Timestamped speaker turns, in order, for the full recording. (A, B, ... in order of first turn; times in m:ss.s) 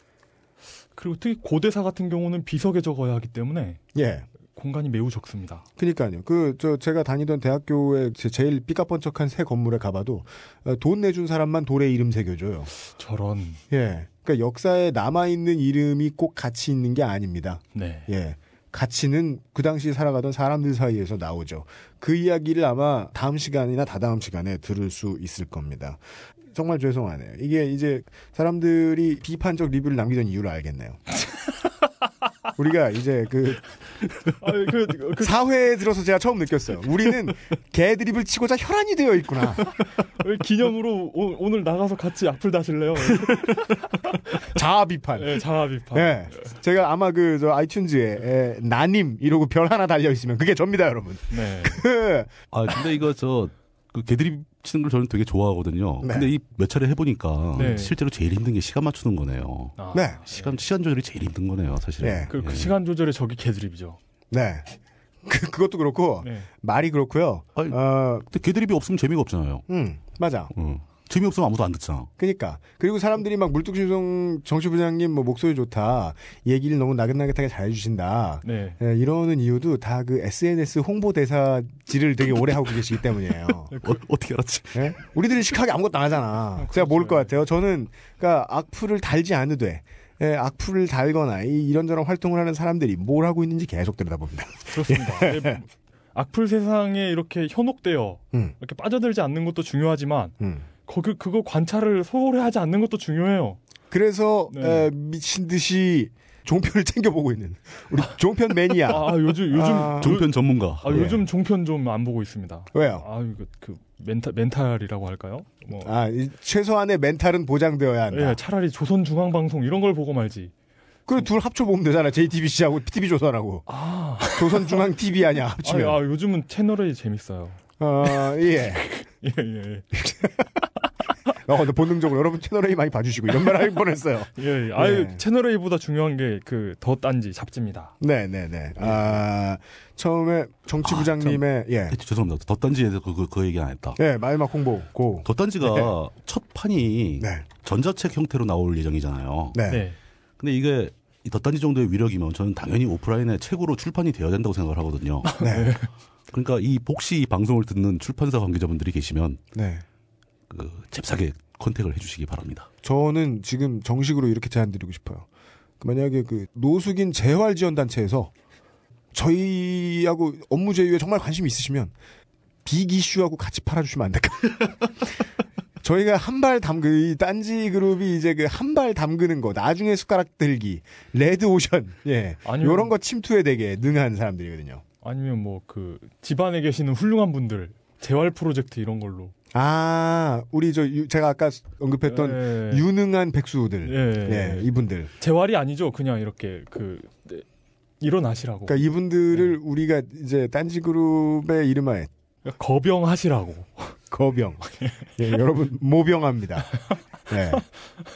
0:01.0-0:03.8 A
0:03.9-0:04.3 B
0:04.5-0:05.6 A
0:05.8-0:12.7 B
0:12.9-0:13.6 A
0:13.7-0:31.0 B
0:17.7-0:18.1 A
0:32.6-0:33.7 B
0:34.4-0:35.4 A
0:35.2-0:39.7 B
0:40.1-0:44.2 A
0:43.1-0:43.4 B
0:44.3-0:52.5 B
0:45.2-0:46.5 A
0:51.3-0:51.8 A
0:52.5-1:02.8 C
0:56.0-0:56.3 B
0:57.5-0:57.9 A
0:59.8-1:00.6 A
0:59.9-1:00.2 B
1:02.0-1:02.3 B
1:02.3-1:04.0 A
1:04.3-1:08.3 B
1:06.2-1:06.5 A
1:07.6-1:09.7 C
1:09.7-1:10.5 B
1:10.5-1:12.1 C
1:12.2-1:23.7 B
1:18.4-1:18.8 A
1:23.7-1:24.0 A
1:23.7-1:24.9 C
1:24.7-1:35.6 B
1:26.6-1:27.3 A
1:34.7-1:43.6 A
1:40.4-1:40.7 B
1:43.9-1:50.2 B
1:44.5-1:44.9 A
1:48.8-1:55.9 A
1:50.0-1:51.0 C
1:50.9-1:51.3 B
1:52.7-1:53.1 B
1:55.8-1:58.4 B
1:58.1-2:00.5 A
2:01.1-2:03.7 B
2:03.7-2:04.9 A
2:04.2-2:06.0 B
2:05.6-2:10.0 A
2:07.8-2:08.9 B
2:09.9-2:10.6 B
2:11.4-2:15.2 B
2:14.4-2:18.0 A
2:18.0-2:22.0 B
2:20.8-2:24.0 C
2:24.0-2:25.9 B
2:25.2-2:29.6 C
2:27.2-2:27.5 B
2:29.5-2:29.9 B
2:29.7-2:30.0 A
2:30.4-2:35.3 C
2:35.3-2:35.9 A
2:35.4-2:35.8 B
2:36.3-2:39.4 C
2:39.6-2:39.8 B
2:40.5-2:42.7 C
2:42.8-2:45.3 B
2:45.8-2:48.3 B
2:49.1-2:51.9 B
2:52.6-2:55.2 B
2:55.8-3:04.8 B
3:02.4-3:02.9 A
3:05.0-3:09.3 A
3:09.5-3:15.1 B
3:12.0-3:12.9 A
3:13.8-3:17.5 A
3:18.0-3:18.8 A
3:18.7-3:22.1 B
3:22.4-3:24.0 A
3:24.1-3:27.6 B
3:24.7-3:25.1 A